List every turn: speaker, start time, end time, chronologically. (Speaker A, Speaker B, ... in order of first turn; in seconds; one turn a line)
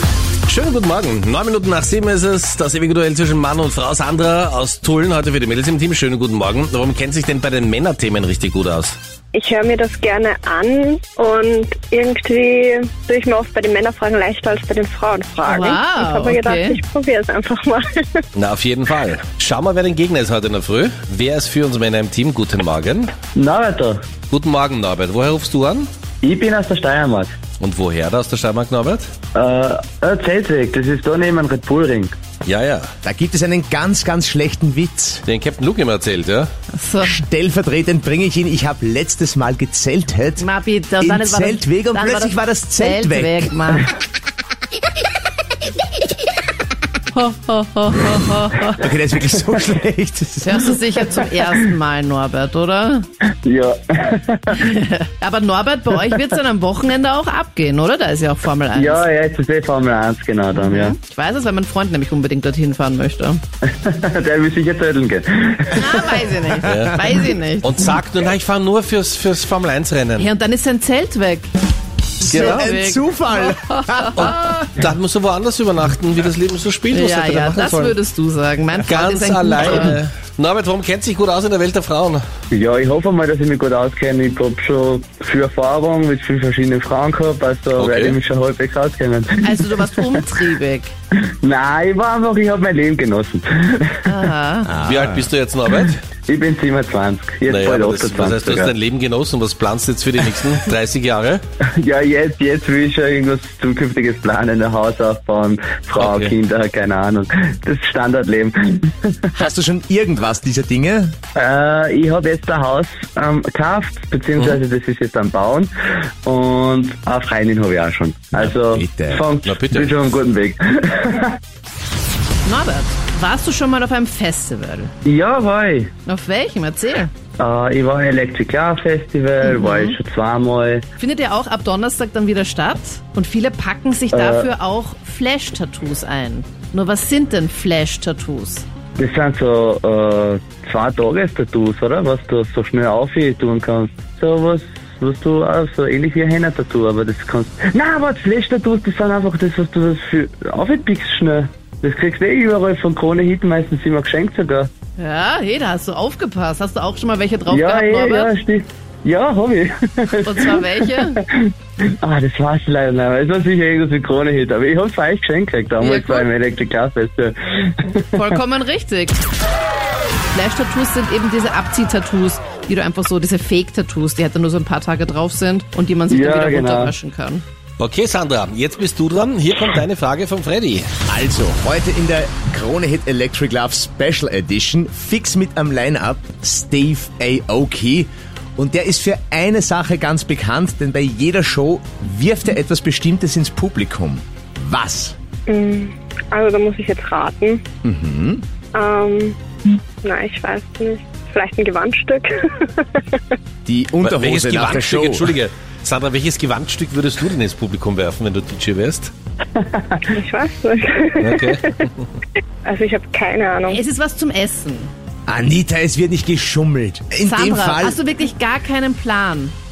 Speaker A: 0.5-9.0
Speaker B: 9.3-18.2
Speaker C: 15.4-16.8
Speaker A: 18.3-23.1
Speaker D: 23.3-24.0
Speaker A: 24.3-25.9
Speaker D: 26.2-27.3
Speaker A: 27.6-29.1
Speaker D: 29.3-32.1
Speaker A: 32.5-32.9
Speaker E: 33.0-35.2
Speaker A: 35.2-36.5
Speaker C: 36.7-37.2
Speaker E: 37.0-40.5
Speaker C: 40.4-43.9
Speaker E: 41.0-43.8
Speaker C: 47.1-48.8
Speaker E: 48.8-50.7
Speaker C: 50.4-53.1
Speaker D: 53.4-54.6
Speaker C: 54.5-59.0
Speaker D: 58.7-60.9
Speaker C: 60.5-63.4
Speaker D: 63.7-66.2
Speaker C: 65.7-67.8
Speaker A: 66.7-67.0
Speaker A: 67.6-70.3
Speaker C: 70.2-71.5
Speaker E: 72.2-74.3
Speaker A: 72.3-72.7
Speaker C: 72.3-74.3
Speaker A: 74.1-77.9
Speaker C: 76.9-80.0
Speaker A: 78.8-82.2
Speaker D: 82.5-90.1
Speaker A: 87.8-88.2
Speaker C: 89.4-90.9
Speaker D: 91.4-94.2
Speaker C: 94.0-94.7
Speaker E: 94.7-95.3
Speaker A: 94.8-96.0
Speaker D: 96.3-98.7
Speaker A: 97.5-101.4
Speaker D: 101.8-109.2
Speaker A: 106.0-106.3
Speaker E: 109.4-111.2
Speaker D: 111.3-115.7
Speaker D: 116.2-121.4
Speaker E: 118.3-119.2
Speaker A: 119.4-120.0
Speaker C: 122.4-124.9
Speaker D: 125.0-125.9
Speaker C: 126.0-127.1
Speaker D: 127.4-130.8
Speaker C: 129.4-130.0
Speaker C: 131.0-138.6
Speaker D: 134.1-134.5
Speaker D: 139.0-154.7
Speaker C: 155.0-158.3
Speaker D: 157.5-161.5
Speaker C: 160.2-161.2
Speaker D: 162.0-168.3
Speaker C: 165.8-166.3
Speaker C: 168.2-169.2
Speaker C: 170.3-177.4
Speaker D: 176.1-176.9
Speaker A: 177.8-180.9
Speaker E: 181.1-195.1
Speaker B: 195.5-197.6
Speaker E: 197.8-198.4
Speaker B: 198.7-199.4
Speaker B: 200.0-203.3
Speaker E: 203.6-205.4
Speaker A: 204.0-209.1
Speaker D: 209.6-210.1
Speaker B: 210.1-211.8
Speaker A: 211.2-212.2
Speaker B: 212.6-213.8
Speaker C: 213.7-214.9
Speaker E: 215.3-218.0
Speaker C: 217.2-219.5